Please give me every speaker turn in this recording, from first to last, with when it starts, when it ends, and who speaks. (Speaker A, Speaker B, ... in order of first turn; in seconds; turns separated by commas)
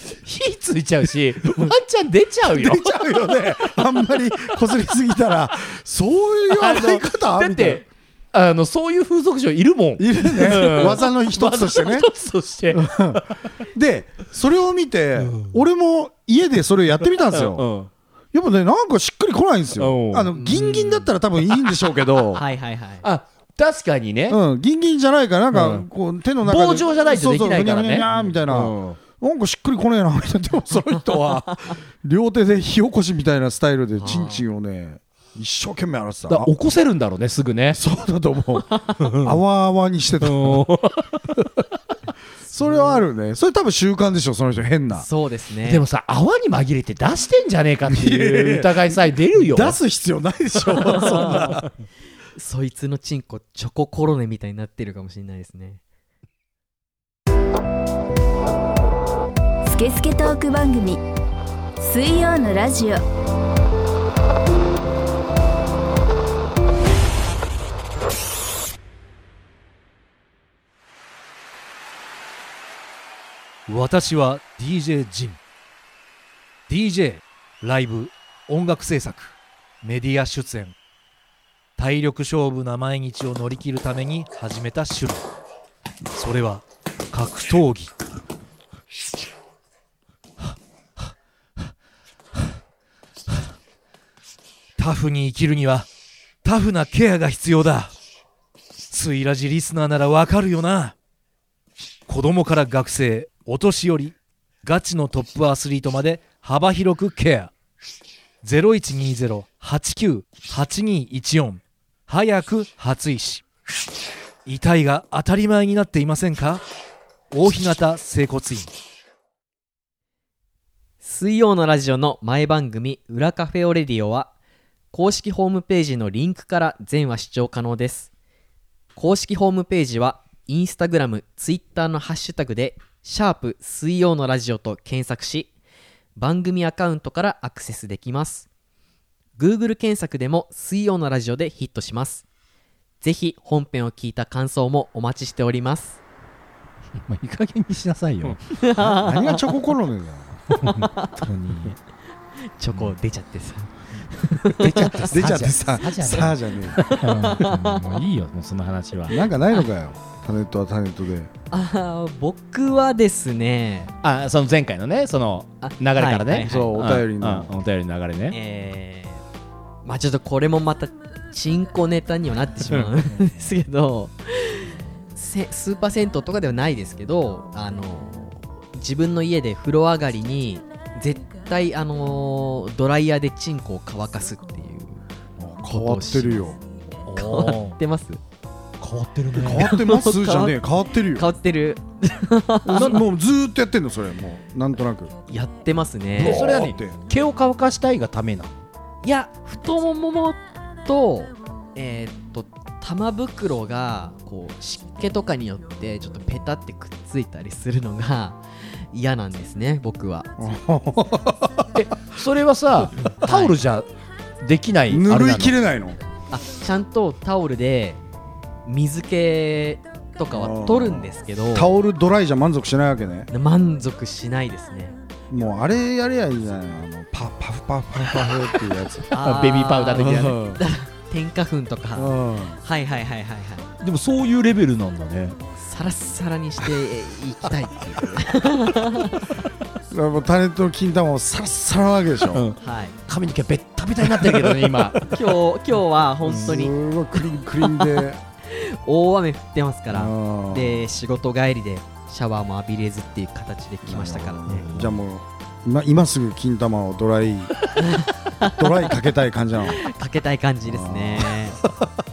Speaker A: 0.2-3.3, Speaker B: 1.5-1.7, Speaker B: 2.5-7.9, Speaker A: 6.5-13.3, Speaker B: 10.0-12.1, Speaker B: 12.7-17.7, Speaker A: 15.2-15.6, Speaker A: 17.2-17.9, Speaker B: 18.3-22.4, Speaker A: 19.8-20.4, Speaker C: 20.4-21.1, Speaker C: 22.3-23.1, Speaker A: 23.0-24.4, Speaker B: 24.3-36.5, Speaker A: 25.5-25.9, Speaker A: 26.4-29.0, Speaker C: 34.0-34.5, Speaker A: 36.3-37.8, Speaker B: 37.7-40.6, Speaker A: 39.0-39.4, Speaker A: 40.2-41.3, Speaker B: 42.5-45.1, Speaker C: 42.6-43.0, Speaker C: 44.9-45.8, Speaker A: 45.6-49.8, Speaker B: 47.9-51.7, Speaker C: 50.7-51.6, Speaker A: 51.3-51.5, Speaker C: 52.4-55.8, Speaker D: 59.6-61.0, Speaker D: 61.8-63.0, Speaker E: 73.7-75.4, Speaker E: 76.7-80.8, Speaker E: 81.8-85.3, Speaker E: 86.2-87.9, Speaker E: 90.4-91.1, Speaker E: 94.8-95.9, Speaker E: 96.4-97.9, Speaker E: 98.9-101.0, Speaker E: 102.1-107.5, Speaker E: 108.4-113.4, Speaker E: 114.5-116.6, Speaker E: 117.3-118.8, Speaker C: 121.0-124.3, Speaker C: 124.9-128.1, Speaker C: 128.9-135.5, Speaker C: 136.2-138.5, Speaker C: 139.4-142.2, Speaker C: 143.0-146.0, Speaker A: 147.1-148.4, Speaker C: 148.6-149.4, Speaker B: 148.8-150.4, Speaker A: 150.5-151.8, Speaker C: 150.7-151.2, Speaker C: 152.4-156.2, Speaker A: 154.5-159.2, Speaker B: 155.1-156.8, Speaker C: 156.8-158.0, Speaker B: 159.1-161.3, Speaker C: 161.5-163.9, Speaker A: 164.0-168.4, Speaker C: 165.6-166.8, Speaker B: 166.4-167.5, Speaker C: 168.3-169.2, Speaker C: 169.8-185.0, Speaker B: 185.4-186.6, Speaker C: 185.7-186.5, Speaker A: 187.1-187.8, Speaker C: 187.1-188.2, Speaker A: 188.8-189.7, Speaker B: 189.4-191.3, Speaker C: 189.4-193.0, Speaker B: 192.7-195.1, Speaker C: 195.3-196.4, Speaker B: 196.2-197.0, Speaker A: 196.2-198.5, Speaker C: 199.0-210.4, Speaker B: 210.4-211.7, Speaker A: 211.8-213.9, Speaker C: 213.2-213.6, Speaker A: 214.4-215.6, Speaker B: 214.9-216.0, Speaker C: 216.3-218.0, Speaker C: 218.7-221.7, Speaker B: 220.3-223.3, Speaker C: 223.3-225.0, Speaker B: 225.3-229.1, Speaker C: 229.1-233.7, Speaker A: 229.2-230.4, Speaker B: 229.9-230.6, Speaker B: 231.9-232.6, Speaker A: 233.8-235.4, Speaker C: 235.6-239.3, Speaker B: 239.9-242.4, Speaker A: 242.3-245.1, Speaker C: 242.6-243.0, Speaker C: 245.1-246.8, Speaker B: 246.2-248.2, Speaker C: 247.6-254.7, Speaker B: 249.9-250.9, Speaker B: 253.9-257.6, Speaker A: 254.5-255.0, Speaker C: 257.8-258.9, Speaker B: 258.4-259.9, Speaker C: 259.8-261.6, Speaker B: 260.7-261.9